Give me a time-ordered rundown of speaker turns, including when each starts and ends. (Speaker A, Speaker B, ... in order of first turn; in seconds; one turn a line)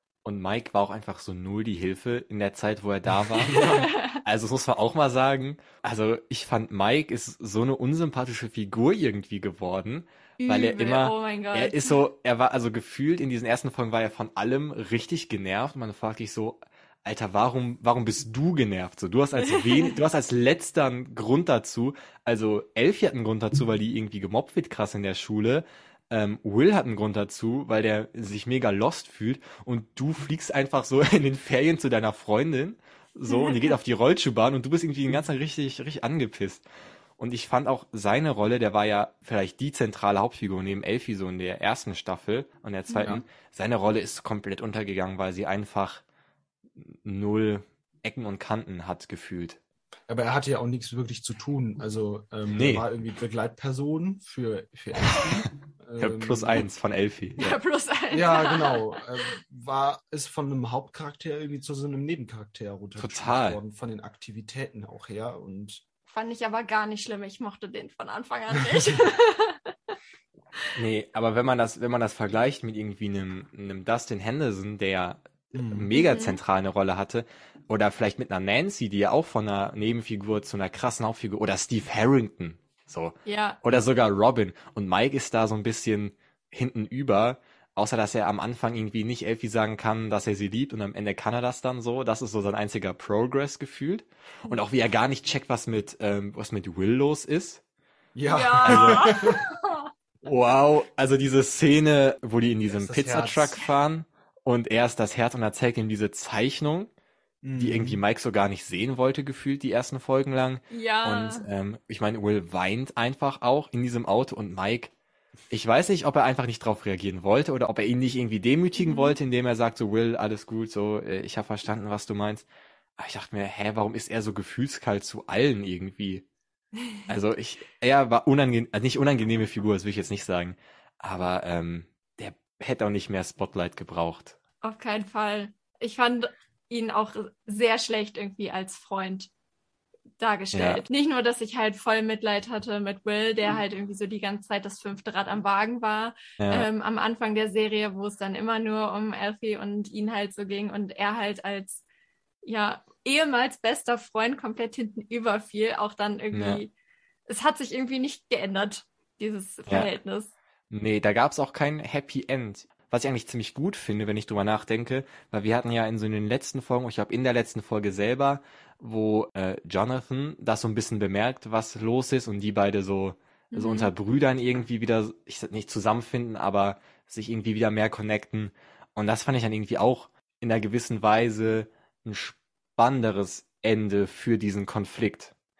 Speaker A: 0.2-36.6
Speaker B: 3.4-3.9
Speaker C: 3.5-4.2
Speaker C: 10.4-12.0
Speaker C: 19.4-20.0
Speaker C: 33.3-33.6
Speaker A: 37.2-46.0
Speaker C: 42.9-43.1
Speaker A: 46.8-49.6
Speaker B: 50.1-56.6
Speaker A: 52.5-52.8
Speaker A: 55.1-55.5
Speaker A: 56.0-57.6
Speaker C: 57.4-59.0
Speaker B: 58.1-65.8
Speaker A: 63.0-63.6
Speaker C: 66.1-70.0
Speaker B: 68.6-69.0
Speaker A: 70.7-97.6
Speaker B: 75.5-75.9
Speaker C: 75.9-76.4
Speaker C: 83.2-83.6
Speaker B: 98.1-99.4
Speaker C: 98.3-99.9
Speaker A: 98.6-99.2
Speaker A: 100.2-106.9
Speaker B: 102.7-103.5
Speaker B: 107.4-108.0
Speaker A: 107.6-114.9
Speaker C: 110.7-111.5
Speaker A: 115.5-122.5
Speaker C: 118.8-119.2
Speaker A: 123.0-126.2
Speaker C: 126.8-127.0
Speaker A: 127.1-134.3
Speaker C: 134.6-139.3
Speaker C: 140.2-151.8
Speaker A: 140.5-140.8
Speaker A: 146.4-146.7
Speaker C: 152.4-156.7
Speaker A: 156.3-156.6
Speaker C: 157.3-160.3
Speaker A: 160.7-185.3
Speaker C: 173.5-173.9